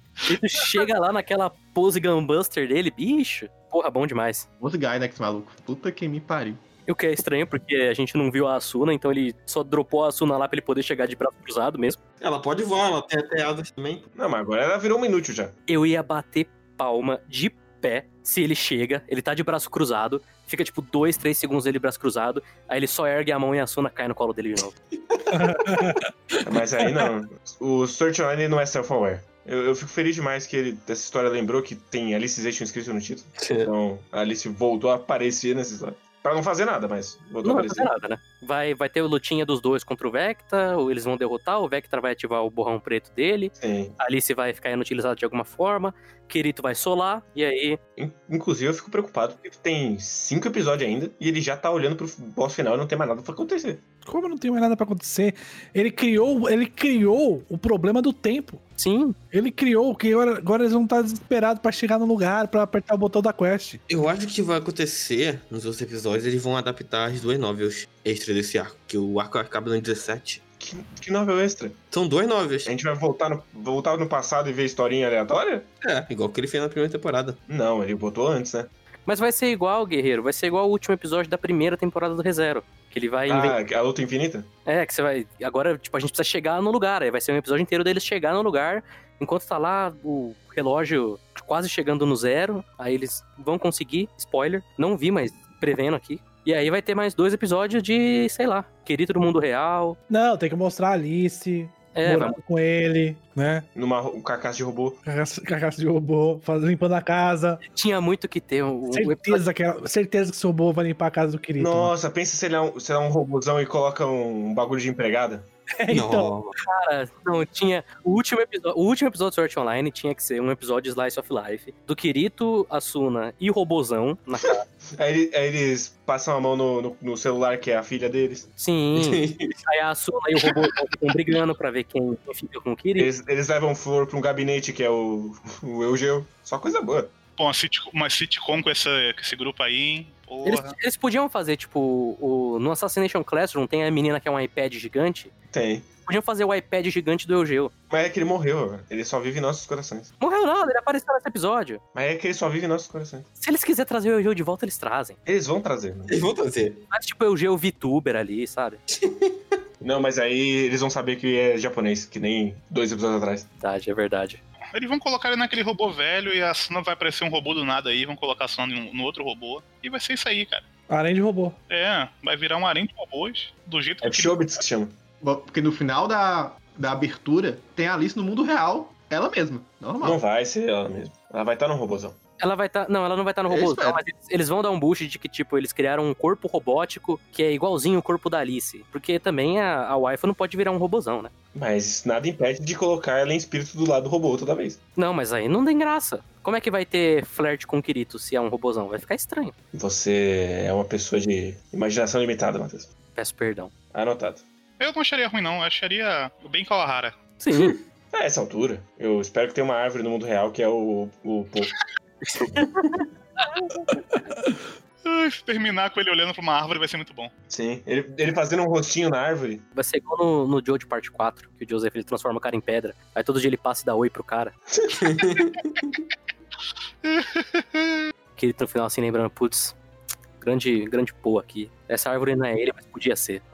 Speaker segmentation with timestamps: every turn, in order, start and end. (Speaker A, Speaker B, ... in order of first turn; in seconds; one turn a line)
Speaker A: 0.3-4.5
Speaker B: 4.6-6.6
Speaker A: 6.9-12.0
Speaker C: 12.2-14.0
Speaker D: 14.1-15.6
Speaker A: 15.7-24.7
Speaker C: 24.9-25.8
Speaker E: 25.3-26.4
Speaker D: 26.4-37.9
Speaker C: 33.4-33.7
Speaker A: 37.4-47.8
Speaker D: 43.6-44.0
Speaker D: 48.0-53.8
Speaker E: 54.0-58.6
Speaker A: 58.8-59.1
Speaker E: 59.3-63.8
Speaker C: 63.9-70.4
Speaker D: 70.6-71.8
Speaker C: 71.9-72.7
Speaker D: 72.6-75.7
Speaker C: 75.8-77.4
Speaker D: 77.5-78.7
Speaker A: 79.1-83.5
Speaker D: 83.3-84.5
Speaker A: 84.7-100.0
Speaker E: 100.1-103.6
Speaker A: 101.9-102.4
Speaker D: 103.7-105.0
Speaker E: 105.0-107.6
Speaker A: 107.7-109.4
Speaker E: 108.9-111.9
Speaker D: 111.6-115.5
Speaker E: 115.8-116.3
Speaker C: 115.9-116.5
Speaker A: 116.7-124.6
Speaker D: 124.9-128.5
Speaker A: 128.6-133.1
Speaker C: 128.9-129.6
Speaker D: 133.0-137.1
Speaker F: 137.4-140.8
Speaker A: 140.4-145.3
Speaker D: 145.5-145.9
Speaker A: 146.1-147.7
Speaker D: 147.9-150.1
Speaker A: 150.2-151.8
Speaker D: 151.9-153.3
Speaker A: 153.4-155.2
Speaker D: 155.2-156.2
Speaker C: 156.1-156.8
Speaker A: 156.9-158.8
Speaker C: 158.9-159.4
Speaker D: 159.8-163.5
Speaker A: 163.6-164.4
Speaker F: 164.7-170.6
Speaker E: 170.9-171.6
Speaker F: 171.7-174.4
Speaker D: 174.0-174.9
Speaker B: 175.2-180.2
Speaker D: 180.0-182.2
Speaker A: 182.4-191.3
Speaker B: 183.5-184.0
Speaker D: 191.5-194.8
Speaker A: 194.9-199.5
Speaker D: 199.7-202.9
Speaker A: 203.2-203.7
Speaker D: 203.9-204.4
Speaker F: 204.8-207.2
Speaker A: 207.4-207.7
Speaker C: 207.5-207.8
Speaker D: 208.1-211.7
Speaker C: 212.4-212.8
Speaker F: 215.0-217.3
Speaker D: 217.5-219.6
Speaker A: 219.8-224.5
Speaker D: 224.8-225.4
Speaker C: 225.0-225.8
Speaker F: 227.0-227.9
Speaker A: 228.3-229.8
Speaker A: 230.4-233.4